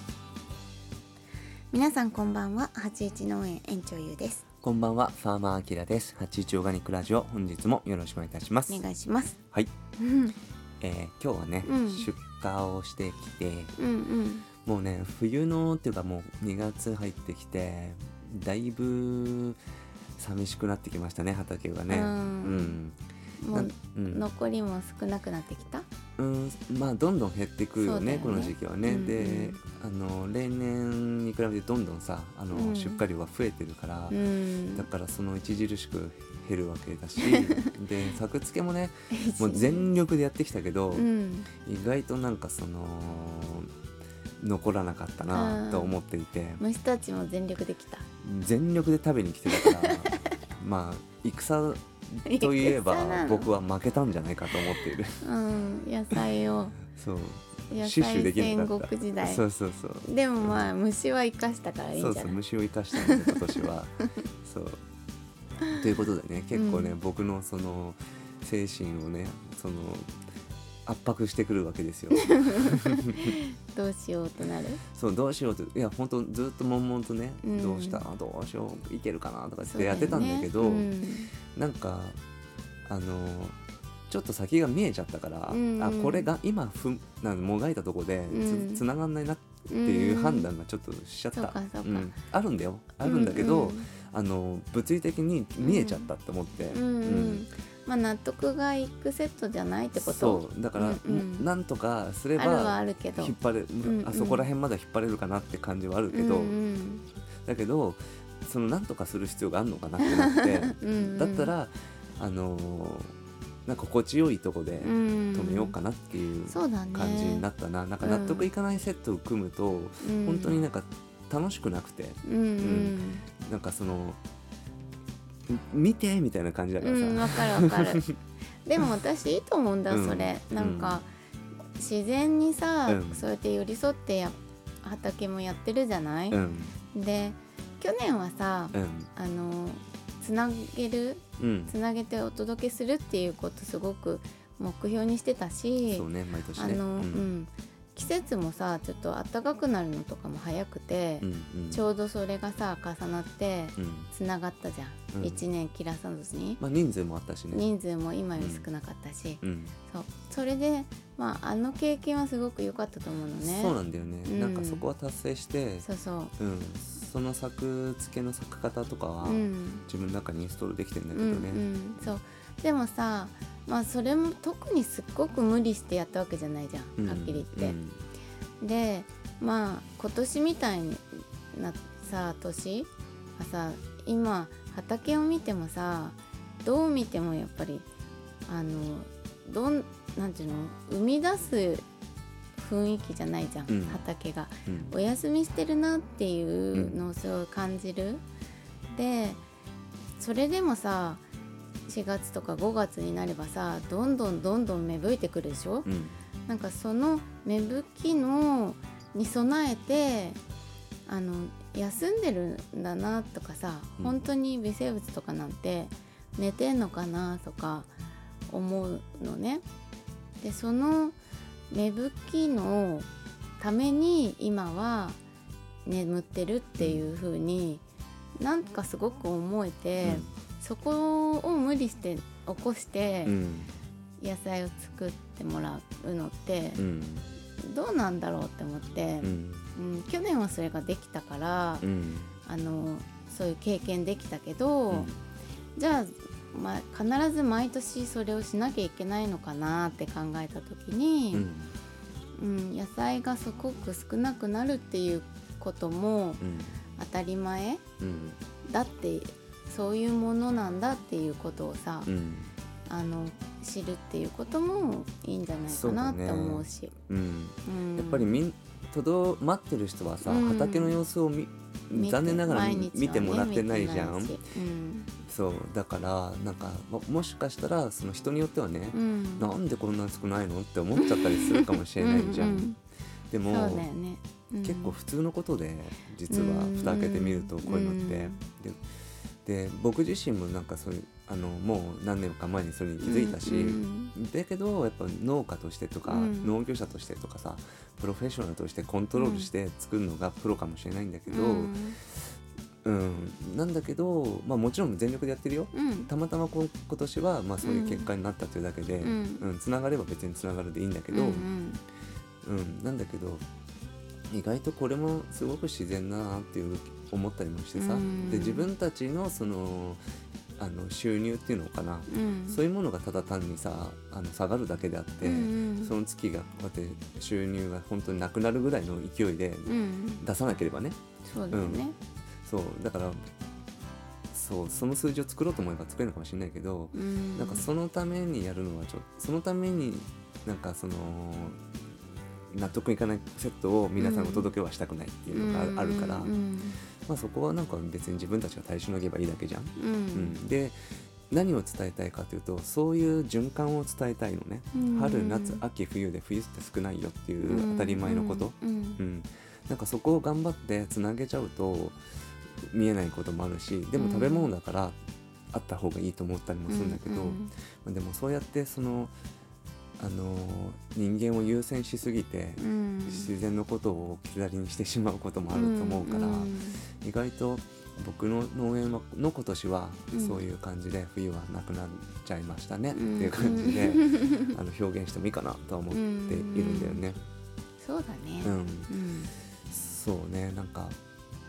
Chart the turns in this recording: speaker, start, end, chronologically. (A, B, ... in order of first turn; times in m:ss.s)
0:01.7-0:04.4 A
0:04.6-0:08.8 B
0:08.7-0:09.4 A
0:10.0-0:10.4 A
0:10.8-0:13.7 B
0:11.6-0:12.1 A
0:13.8-0:14.5 A
0:14.6-0:19.6 B
0:20.2-0:23.0 B
0:21.9-0:22.8 A
0:23.4-0:25.9 A
0:23.5-0:24.3 B
0:26.2-0:34.2 B
0:27.8-0:29.6 A
0:32.5-0:33.0 A
0:34.1-0:34.9 A
0:34.7-0:43.7 B
0:37.2-0:37.7 A
0:39.1-0:40.0 A
0:40.9-0:41.5 A
0:44.4-0:46.6 B
0:45.3-0:46.0 A
0:46.6-0:48.1 A
0:48.2-0:55.2 B
0:49.5-0:50.2 A
0:52.2-0:53.5 A
0:54.8-0:56.8 A
0:56.9-1:00.7 B
0:57.7-0:59.4 A
1:00.0-1:02.4 A
1:02.0-1:04.8 B
1:02.9-1:04.0 A
1:05.7-1:10.1 B
1:06.5-1:07.0 A
1:10.9-1:12.9 B
1:12.2-1:14.8 A
1:14.9-1:20.9 B
1:17.4-1:18.0 A
1:19.7-1:21.3 A
1:21.5-1:22.2 B
1:22.9-1:23.6 B
1:24.1-1:37.5 B
1:25.5-1:26.3 A
1:28.3-1:28.8 A
1:29.7-1:30.5 A
1:31.4-1:32.1 A
1:33.0-1:33.9 A
1:35.6-1:36.1 A
1:36.7-1:41.5 A
1:39.9-1:46.6 B
1:42.4-1:44.5 A
1:46.1-1:47.0 A
1:47.4-1:53.1 B
1:50.0-1:51.5 A
1:53.7-2:04.2 B
1:54.8-1:55.8 A
1:56.5-1:57.5 A
1:58.0-1:58.5 A
2:00.0-2:00.6 A
2:02.2-2:03.2 A
2:05.5-2:08.1 B
2:06.8-2:08.1 A
2:08.7-2:11.1 A
2:09.9-2:11.0 B
2:11.8-2:16.4 A
2:12.9-2:13.3 B
2:16.3-2:16.8 B
2:16.9-2:36.6 A
2:18.7-2:19.1 B
2:21.4-2:21.8 B
2:25.8-2:27.3 B
2:31.2-2:31.9 B
2:33.8-2:34.1 B
2:35.1-2:35.4 B
2:36.6-2:37.7 B
2:37.5-2:44.9 A
2:38.4-2:38.7 B
2:39.4-2:39.8 B
2:43.4-2:45.9 B
2:45.8-2:46.3 A
2:46.4-2:51.6 B
2:49.2-2:49.8 A
2:51.1-2:57.8 A
2:57.0-2:58.0 B
2:58.6-3:07.9 A
3:08.5-3:11.9 A
3:12.6-3:18.2 A
3:13.7-3:14.0 B
3:14.7-3:14.9 B
3:16.7-3:17.0 B
3:18.9-3:19.4 A
3:20.2-3:21.2 A
3:21.9-3:25.9 A
3:25.8-3:26.2 B
3:26.5-3:30.4 A
3:31.1-3:37.9 A
3:38.5-3:39.6 A
3:40.4-3:41.2 A
3:41.7-3:43.1 A
3:43.6-3:45.2 A
3:45.8-3:47.8 A
3:46.8-3:47.0 B
3:48.4-3:53.4 A
3:50.0-3:50.3 B
3:53.2-3:53.7 B
3:54.2-3:56.8 A
3:56.8-3:57.3 B
3:57.6-4:01.9 A
3:59.2-3:59.7 B
4:01.8-4:02.3 B
4:02.5-4:05.1 A
4:04.9-4:05.2 B
4:05.8-4:11.5 A
4:11.3-4:11.8 B
4:12.4-4:16.4 A
4:16.4-4:16.8 B
4:17.0-4:17.8 A
4:18.0-4:18.4 B
4:18.6-4:22.1 A
4:22.1-4:22.5 B
4:22.9-4:26.9 A
4:25.7-4:34.4 B
4:27.6-4:28.4 A
4:30.2-4:31.0 A
4:31.9-4:35.1 A
4:35.2-4:42.7 B
4:38.9-4:39.5 A
4:41.0-4:42.8 A
4:43.3-4:43.9 B
4:43.5-4:45.0 A
4:44.6-4:48.8 B
4:46.3-4:48.4 A
4:49.4-5:01.8 B
4:53.0-4:54.1 A
4:56.1-4:56.6 A
4:59.2-4:59.5 A
5:01.3-5:02.0 A
5:02.8-5:11.5 B
5:05.7-5:06.1 A
5:07.6-5:08.1 A
5:09.0-5:09.4 A
5:11.1-5:11.8 A
5:12.4-5:13.4 B
5:14.3-5:20.0 B
5:17.8-5:18.7 A
5:20.6-5:31.0 B
5:22.1-5:22.6 A
5:25.2-5:25.9 A
5:29.7-5:30.2 A
5:31.2-5:32.0 A
5:31.5-5:31.9 B
5:32.4-5:33.2 B
5:34.3-5:41.6 B
5:36.9-5:37.7 A
5:42.5-5:46.3 B
5:44.0-5:44.5 A
5:45.3-5:46.8 A
5:47.0-5:50.8 B
5:49.8-5:50.4 A
5:51.3-6:02.0 B
5:54.7-5:55.6 A
5:57.4-5:59.0 A
6:02.6-6:05.0 B
6:04.0-6:04.5 A
6:05.5-6:09.1 B
6:06.7-6:07.5 A
6:10.0-6:27.2 B
6:12.6-6:13.3 A
6:15.5-6:16.8 A
6:20.1-6:20.4 A
6:22.9-6:24.6 A
6:25.9-6:27.0 A
6:27.8-6:29.3 A
6:28.4-6:28.9 B
6:29.7-6:31.0 B